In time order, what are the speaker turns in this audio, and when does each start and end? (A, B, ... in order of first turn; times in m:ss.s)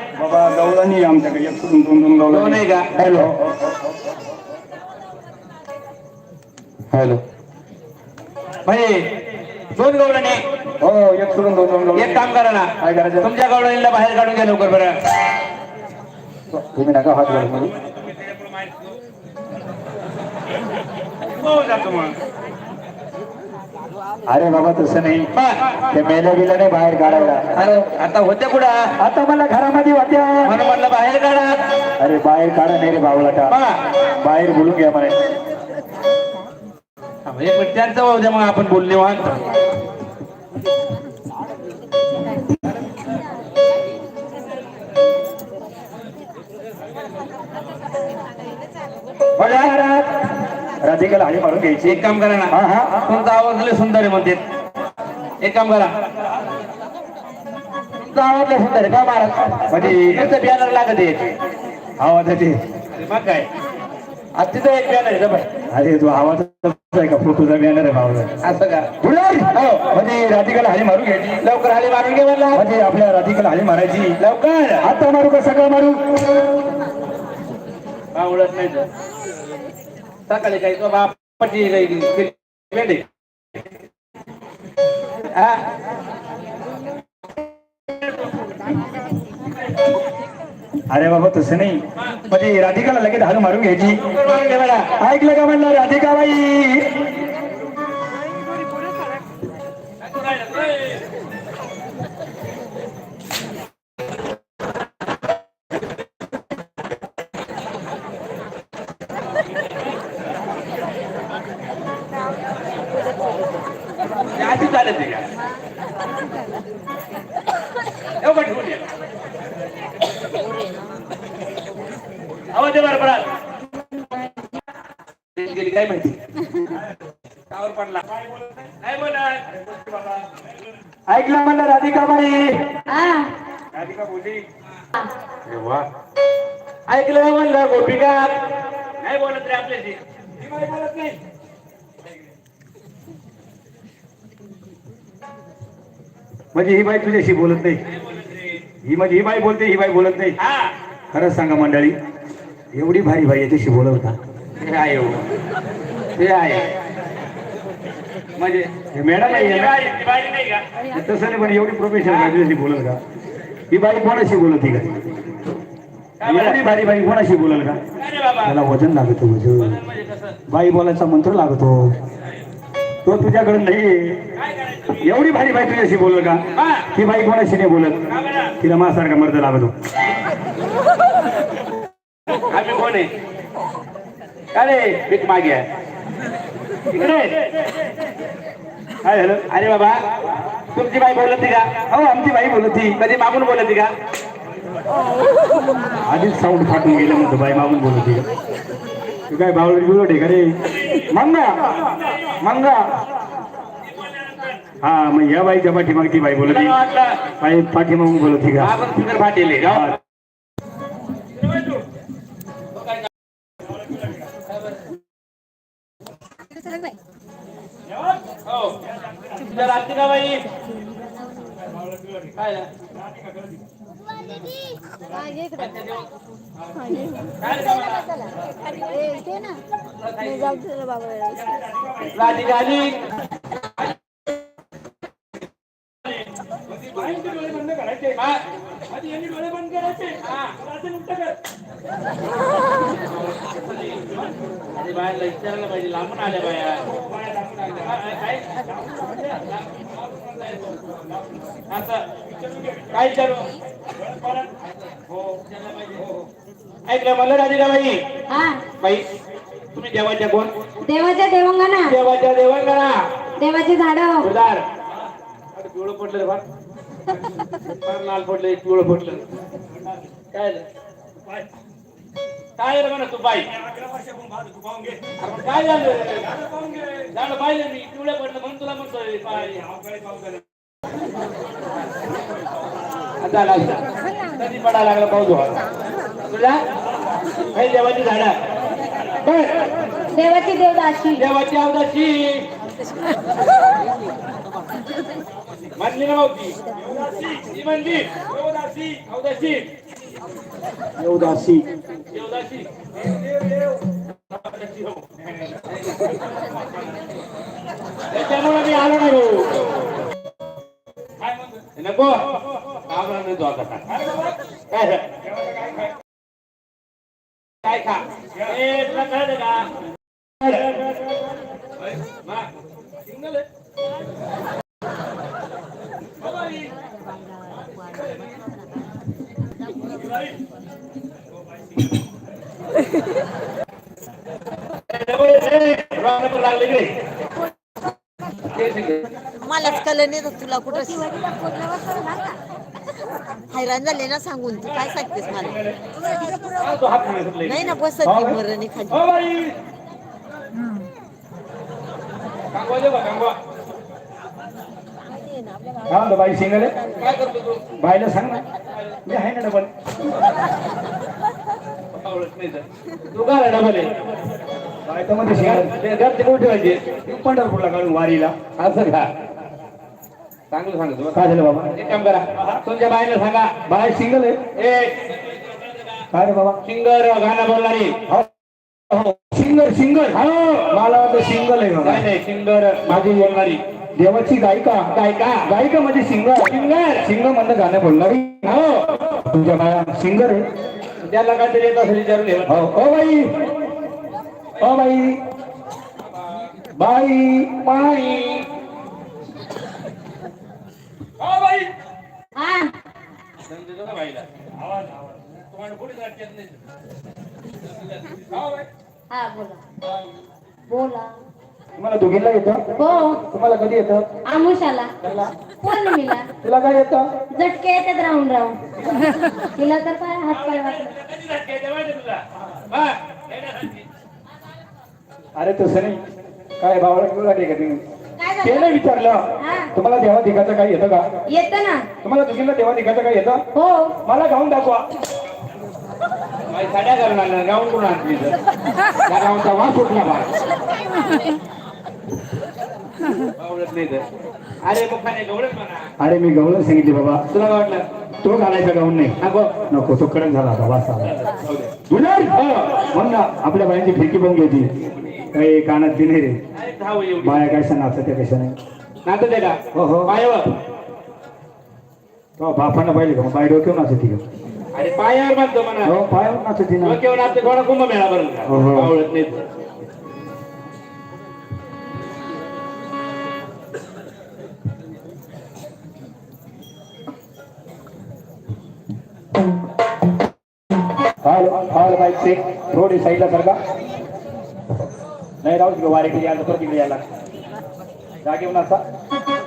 0:00.2-0:03.5 A
0:02.3-0:03.3 B
0:06.9-0:07.2 A
0:08.6-0:09.1 B
0:09.8-0:10.4 B
0:10.8-0:12.3 A
0:12.0-0:15.0 B
0:12.8-0:13.3 A
0:16.5-0:17.7 A
0:21.3-0:22.2 B
0:24.3-0:25.3 A
0:25.4-0:25.7 B
0:25.9-0:27.8 A
0:27.0-0:28.7 B
0:29.0-0:30.6 A
0:30.4-0:31.6 B
0:32.0-0:33.5 A
0:33.5-0:33.8 B
0:34.2-0:35.2 A
0:37.3-0:39.4 B
0:49.4-0:50.1 A
0:49.4-0:49.7 B
0:50.8-0:53.0 A
0:51.8-0:52.5 B
0:53.0-0:54.4 B
0:55.4-0:55.9 B
0:58.0-1:01.3 B
0:59.7-1:00.3 A
1:02.0-1:02.6 A
1:03.0-1:03.5 B
1:04.4-1:05.5 B
1:05.7-1:08.3 A
1:08.4-1:08.9 B
1:09.0-1:11.4 A
1:09.5-1:09.9 B
1:11.4-1:12.7 B
1:12.5-1:14.2 A
1:14.2-1:14.8 B
1:14.8-1:16.4 A
1:18.2-1:18.9 B
1:20.3-1:23.0 B
1:30.9-1:34.0 A
1:34.1-1:34.9 B
1:35.0-1:37.0 A
1:40.0-1:41.0 B
1:54.4-1:55.3 B
1:58.2-1:58.9 B
2:02.5-2:03.3 B
2:05.4-2:06.2 B
2:07.5-2:08.1 B
2:08.6-2:10.2 B
2:11.1-2:12.6 A
2:12.9-2:13.3 C
2:13.8-2:14.4 B
2:15.5-2:15.8 B
2:16.9-2:21.2 B
2:26.5-2:27.8 A
2:27.9-2:28.6 B
2:28.8-2:30.4 A
2:30.4-2:30.7 B
2:31.1-2:32.0 A
2:32.7-2:34.2 A
2:34.6-2:35.3 B
2:36.2-2:36.7 B
2:38.4-2:38.7 B
2:38.9-2:39.8 A
2:39.2-2:40.6 B
2:40.9-2:43.0 A
2:42.0-2:42.4 B
2:43.7-2:44.9 A
2:46.2-2:46.8 B
2:46.2-2:47.8 A
2:48.0-2:48.6 B
2:48.4-2:49.8 A
2:49.6-2:50.4 B
2:50.5-2:52.0 A
2:53.0-2:54.2 A
2:54.4-2:55.1 B
2:55.0-2:58.0 A
2:56.6-2:56.9 B
2:58.1-2:58.5 B
2:58.6-2:59.7 A
3:02.5-3:03.1 B
3:04.5-3:05.6 B
3:06.9-3:07.4 B
3:09.0-3:09.4 A
3:09.4-3:10.0 B
3:10.7-3:11.7 B
3:11.9-3:13.0 A
3:13.0-3:13.9 B
3:16.0-3:18.3 A
3:19.3-3:20.5 A
3:21.1-3:21.8 A
3:22.4-3:22.9 A
3:24.8-3:26.8 A
3:26.5-3:27.2 B
3:27.4-3:28.8 A
3:28.6-3:30.0 B
3:29.7-3:30.0 A
3:31.4-3:31.8 B
3:32.8-3:33.1 B
3:38.5-3:38.8 B
3:39.3-3:40.5 B
3:42.4-3:42.7 B
3:45.3-3:46.1 B
3:47.2-3:48.3 B
3:50.0-3:50.7 B
3:52.0-3:53.0 B
3:56.8-3:58.2 A
3:58.9-4:00.1 A
4:00.1-4:00.6 B
4:00.7-4:01.3 A
4:03.0-4:04.2 B
4:04.8-4:07.0 B
4:07.5-4:11.1 B
4:11.7-4:12.0 B
4:12.7-4:13.5 B
4:15.1-4:16.2 B
4:16.9-4:18.0 B
4:18.3-4:18.6 C
4:18.8-4:19.0 B
4:19.7-4:20.5 B
4:20.8-4:21.9 C
4:21.9-4:23.1 B
4:23.4-4:24.3 C
4:24.2-4:24.7 B
4:25.5-4:26.4 B
4:27.5-4:29.2 B
4:30.3-4:30.7 B
4:32.6-4:33.5 B
4:33.8-4:35.0 A
4:35.0-4:40.4 B
4:43.2-4:43.9 B
4:44.4-4:45.6 B
4:46.3-4:46.6 B
4:47.5-4:48.3 B
4:49.2-4:49.7 B
4:50.1-4:51.2 C
4:51.2-4:52.5 B
4:55.8-4:59.7 B
5:01.0-5:01.7 A
5:02.1-5:02.7 B
5:04.3-5:05.7 B
5:08.1-5:09.7 B
5:11.6-5:12.2 B
5:12.9-5:14.0 B
5:14.7-5:15.1 B
5:17.6-5:19.7 B
5:34.9-5:37.0 B
5:38.5-5:39.8 B
5:39.4-5:42.4 D
5:43.5-5:45.5 D
5:45.2-5:45.8 B
5:46.5-5:47.8 B
5:47.5-5:48.9 D
5:48.0-5:48.4 A
5:48.9-5:49.6 B
5:52.5-5:53.4 B
5:55.9-5:56.7 A
5:57.0-5:57.6 B
5:57.8-5:58.4 A
5:59.1-5:59.7 A
6:01.9-6:03.9 B
6:04.9-6:05.7 A
6:05.3-6:06.8 B
6:07.0-6:08.4 A
6:08.6-6:09.1 B
6:10.5-6:11.2 B
6:11.1-6:11.7 A
6:11.7-6:13.5 B
6:13.7-6:14.4 A
6:14.6-6:15.2 B
6:16.1-6:16.6 A
6:16.6-6:18.0 B
6:18.9-6:20.2 A
6:20.1-6:20.8 B
6:20.7-6:22.0 A
6:21.8-6:23.6 B
6:24.0-6:24.9 A
6:24.9-6:25.4 B
6:25.4-6:28.6 A
6:26.4-6:27.1 B
6:28.4-6:29.0 B
6:29.1-6:30.5 A
6:31.0-6:32.6 B
6:32.5-6:33.3 A
6:34.6-6:35.2 A
6:36.8-6:38.4 A
6:41.2-6:41.7 B
6:42.4-6:42.7 C
6:43.5-6:44.3 B
6:45.2-6:46.6 B
6:48.2-6:48.7 B
6:49.1-6:49.6 C
6:50.7-6:51.2 C
6:51.8-6:52.6 A
6:52.8-6:53.2 C
6:53.3-6:54.1 A
6:54.3-6:54.9 C
6:55.6-6:56.3 C
6:56.4-6:57.1 A
6:57.4-6:59.0 C
6:59.6-7:00.9 C
7:00.3-7:03.9 B
7:05.4-7:06.0 A
7:06.6-7:07.8 A
7:08.2-7:08.8 C
7:08.4-7:09.2 A
7:09.4-7:09.7 C
7:09.7-7:11.0 A
7:11.3-7:11.8 C
7:12.0-7:13.4 A
7:13.6-7:13.9 C
7:14.0-7:14.9 A
7:16.5-7:18.4 B
7:19.1-7:20.3 B
7:23.4-7:24.0 B
7:24.6-7:25.9 B
7:26.0-7:27.2 A
7:27.3-7:27.8 B
7:28.2-7:29.2 A
7:29.2-7:29.5 B
7:29.7-7:31.2 A
7:31.2-7:31.7 B
7:31.9-7:34.7 A
7:32.4-7:32.8 B
7:35.3-7:36.4 A
7:36.6-7:37.5 B
7:37.2-7:38.6 A
7:39.1-7:40.6 B
7:39.8-7:40.1 A
7:42.4-7:44.2 A
7:44.8-7:45.9 B
7:45.8-7:47.0 A
7:46.8-7:49.4 B
7:48.5-7:48.9 A
8:01.2-8:03.6 A
8:05.4-8:07.0 A
8:08.2-8:08.8 A